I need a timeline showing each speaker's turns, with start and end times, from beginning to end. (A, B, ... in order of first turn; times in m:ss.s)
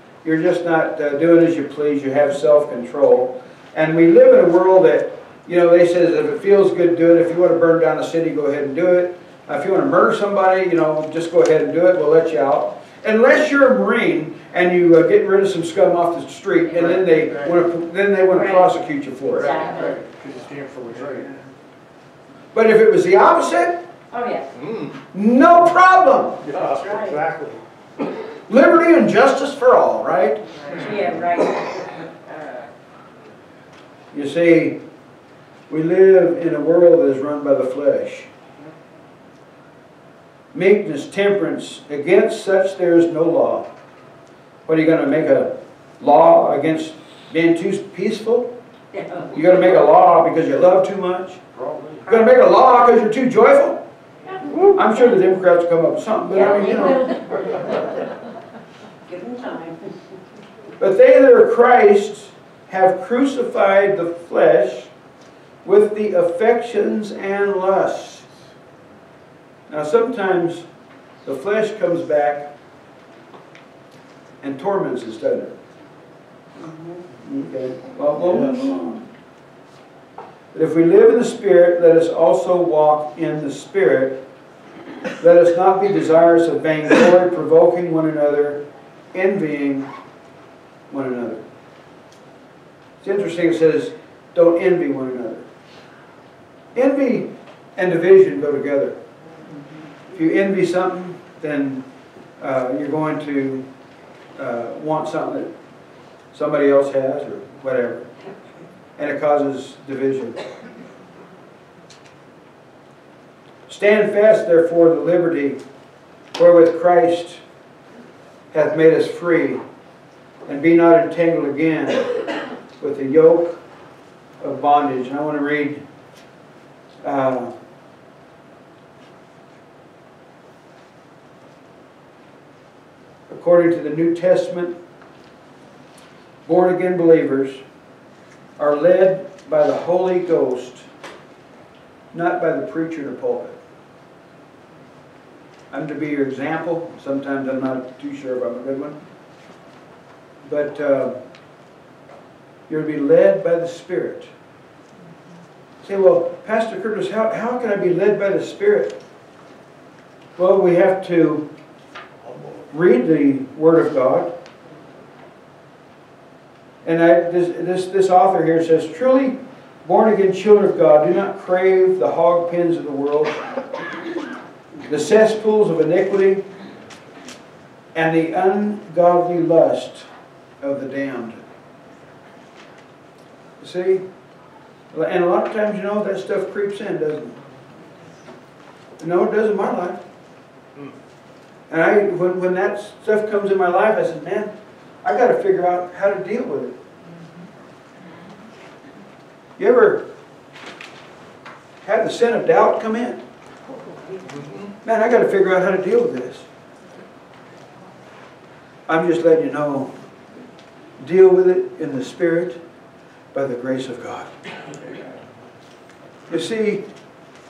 0:00.2-0:19.5 A
0:17.1-0:17.5 B
0:18.3-0:18.7 C
0:19.3-0:20.0 C
0:19.5-0:21.4 B
0:22.5-0:23.9 A
0:24.1-0:24.5 C
0:24.6-0:24.9 B
0:25.1-0:26.5 A
0:26.5-0:27.6 B
0:26.8-0:27.2 C
0:28.5-0:30.4 A
0:30.6-0:32.6 C
0:34.1-0:34.8 A
0:35.7-0:38.3 A
0:40.5-0:43.7 A
0:44.7-0:48.5 A
0:49.0-0:49.3 C
0:49.3-0:51.4 A
0:51.5-0:52.0 B
0:52.1-0:53.8 A
0:54.7-0:57.2 A
0:56.3-0:57.8 C
0:59.0-0:59.9 C
1:00.8-1:04.9 A
1:05.6-1:08.3 A
1:09.7-1:10.7 A
1:11.2-1:12.5 A
1:14.4-1:15.6 A
1:17.2-1:19.0 A
1:20.5-1:24.2 A
1:25.2-1:29.9 A
1:30.9-1:31.4 A
1:33.0-1:35.4 A
1:36.8-1:39.0 A
1:40.1-1:41.9 A
1:42.4-1:43.7 A
1:44.4-1:45.5 A
1:46.3-1:48.1 A
1:49.0-1:50.4 A
1:53.7-1:55.6 A
1:56.4-1:57.4 A
1:58.5-1:59.6 A
2:00.5-2:02.2 A
2:02.8-2:03.6 A
2:04.4-2:05.8 A
2:07.0-2:07.5 A
2:13.3-2:14.8 A
2:16.4-2:17.6 A
2:18.6-2:20.8 A
2:22.1-2:23.6 A
2:25.7-2:29.0 A
2:30.4-2:31.2 A
2:32.7-2:34.3 A
2:35.8-2:39.0 A
2:40.4-2:41.5 A
2:42.7-2:44.3 A
2:46.8-2:53.4 A
2:54.9-2:56.4 A
2:57.9-3:00.1 A
3:00.6-3:01.4 A
3:03.6-3:04.0 A
3:04.9-3:07.4 A
3:09.0-3:10.0 A
3:11.7-3:14.5 A
3:15.0-3:16.8 A
3:19.6-3:20.1 A
3:21.8-3:23.2 A
3:24.8-3:26.5 A
3:28.9-3:29.9 A
3:31.0-3:32.6 A
3:33.3-3:34.3 A
3:36.3-3:36.8 A